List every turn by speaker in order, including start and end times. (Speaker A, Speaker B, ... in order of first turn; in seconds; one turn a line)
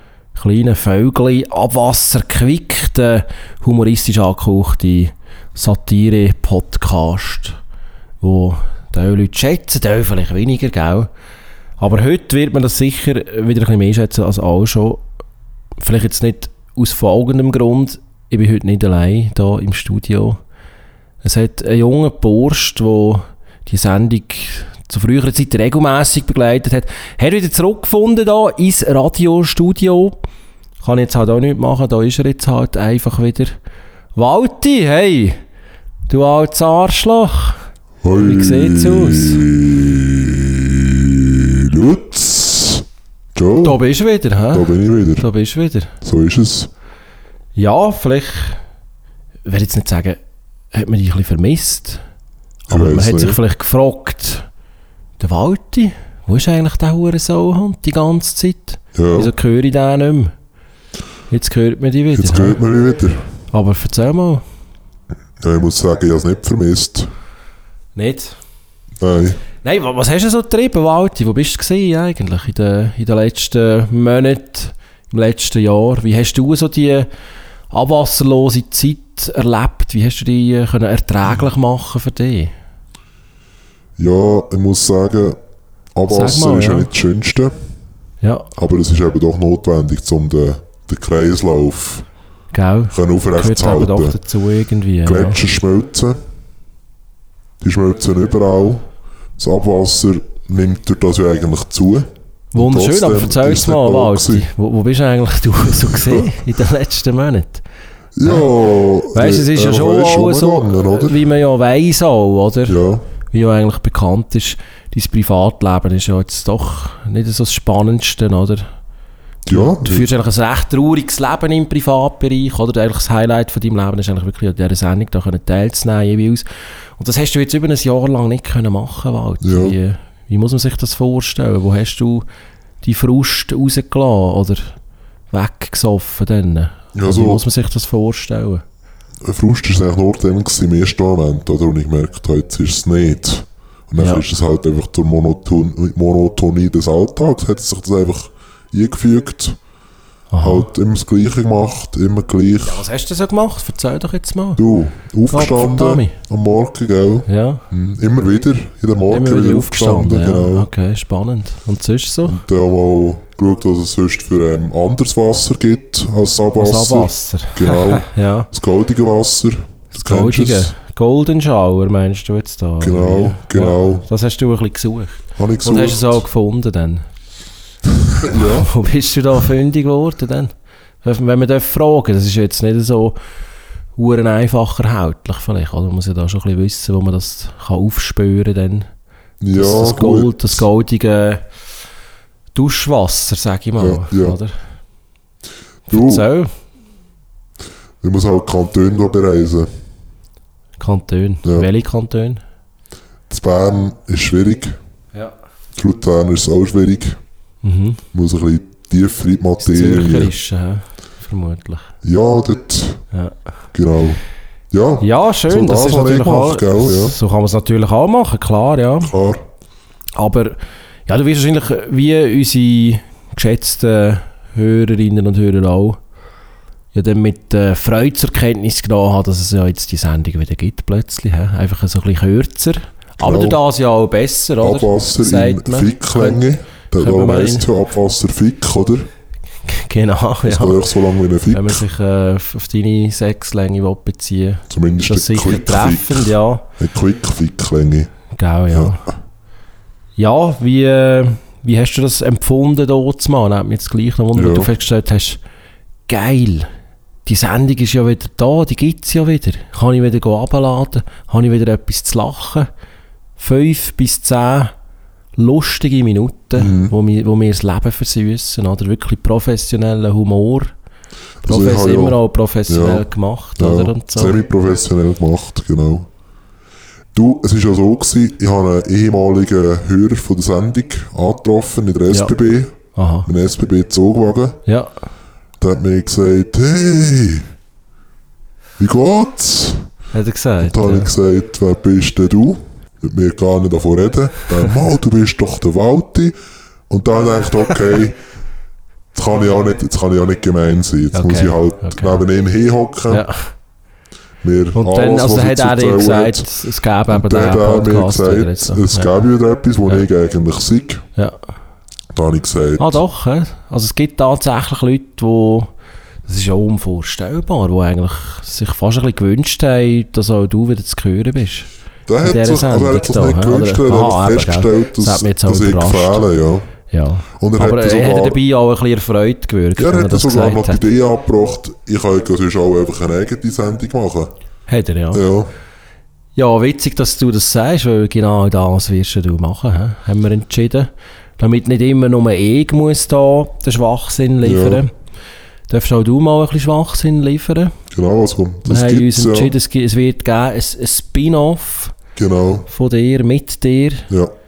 Speaker A: 0.3-7.6
Speaker A: 8.2-11.1
Speaker A: 11.8-15.0
Speaker A: 15.8-20.4
Speaker A: 21.2-30.2
Speaker A: 30.8-33.5
Speaker A: 34.1-35.4
Speaker A: 36.1-39.5
Speaker B: 38.0-43.8
Speaker A: 43.6-45.9
Speaker B: 44.5-45.2
Speaker B: 46.0-46.7
Speaker A: 47.5-48.6
Speaker A: 49.4-50.2
Speaker A: 50.7-52.0
Speaker A: 52.7-54.5
Speaker B: 52.7-53.4
Speaker A: 55.2-60.3
Speaker B: 58.9-59.3
Speaker A: 61.3-62.6
Speaker B: 62.1-63.3
Speaker A: 63.5-64.4
Speaker B: 65.4-67.1
Speaker A: 68.0-68.4
Speaker B: 69.0-69.4
Speaker A: 69.6-77.1
Speaker A: 77.7-82.5
Speaker B: 84.0-85.4
Speaker B: 85.9-87.5
Speaker A: 86.0-86.9
Speaker A: 88.2-88.5
Speaker B: 88.6-92.1
Speaker A: 92.5-95.4
Speaker B: 92.9-94.2
Speaker B: 95.0-96.2
Speaker B: 97.6-104.5
Speaker A: 102.5-107.6
Speaker B: 105.9-106.3
Speaker B: 108.2-111.2
Speaker A: 108.2-108.5
Speaker A: 109.1-112.8
Speaker B: 112.7-113.0
Speaker A: 113.3-118.6
Speaker B: 119.5-120.1
Speaker A: 119.5-132.2
Speaker B: 129.4-129.8
Speaker A: 132.8-134.8
Speaker A: 135.3-138.6
Speaker B: 136.9-137.4
Speaker B: 139.2-149.6
Speaker A: 144.0-144.2
Speaker A: 150.3-150.7
Speaker B: 150.4-152.8
Speaker A: 152.6-154.6
Speaker B: 154.6-160.7
Speaker A: 155.3-156.2
Speaker A: 157.2-157.6
Speaker A: 159.1-162.4
Speaker B: 162.2-170.7
Speaker A: 166.6-168.5
Speaker A: 169.9-177.0
Speaker B: 172.8-174.0
Speaker B: 175.3-176.2
Speaker B: 178.2-178.7
Speaker A: 178.3-183.2
Speaker A: 183.9-188.9
Speaker B: 189.4-190.6
Speaker A: 189.5-191.5
Speaker A: 192.5-194.6
Speaker B: 193.8-194.4
Speaker A: 195.9-196.5
Speaker B: 195.9-196.2
Speaker B: 198.0-199.7
Speaker A: 200.8-202.4
Speaker B: 201.4-201.7
Speaker B: 203.3-204.7
Speaker B: 205.8-207.2
Speaker A: 207.6-208.0
Speaker B: 208.1-210.3
Speaker A: 209.6-211.9
Speaker B: 212.0-213.0
Speaker A: 213.1-213.4
Speaker B: 213.7-217.2
Speaker A: 215.0-219.1
Speaker B: 219.0-219.4
Speaker A: 220.2-226.0
Speaker A: 226.9-237.7
Speaker B: 233.2-233.6
Speaker B: 234.6-239.1
Speaker A: 239.6-246.6
Speaker B: 240.4-241.8
Speaker B: 244.7-248.1
Speaker A: 248.3-249.1
Speaker B: 248.7-249.0
Speaker A: 250.2-255.4
Speaker B: 254.3-254.7
Speaker A: 256.1-256.7
Speaker A: 257.2-262.7
Speaker A: 263.4-264.7
Speaker A: 265.4-270.7
Speaker B: 266.6-266.9
Speaker B: 271.4-273.1
Speaker A: 271.4-274.4
Speaker B: 273.6-276.1
Speaker B: 277.1-284.6
Speaker A: 282.9-283.3
Speaker A: 284.6-285.0
Speaker B: 285.6-287.4
Speaker B: 288.8-289.9
Speaker A: 290.1-291.1
Speaker B: 290.6-296.3
Speaker B: 296.9-298.2
Speaker B: 299.1-303.2
Speaker A: 301.1-302.2
Speaker A: 303.1-303.5
Speaker B: 304.4-306.6
Speaker A: 304.7-309.1
Speaker B: 307.1-311.0
Speaker B: 312.1-313.0
Speaker A: 312.8-315.7
Speaker A: 316.2-321.7
Speaker B: 322.1-326.7
Speaker A: 322.2-326.3
Speaker A: 326.9-330.8
Speaker B: 327.4-328.4
Speaker B: 329.8-334.3
Speaker A: 334.7-335.2
Speaker B: 335.1-335.5
Speaker A: 336.4-344.9
Speaker B: 344.4-344.8
Speaker A: 345.7-347.7
Speaker B: 347.9-349.5
Speaker A: 348.6-351.9
Speaker B: 352.1-352.7
Speaker A: 352.7-354.1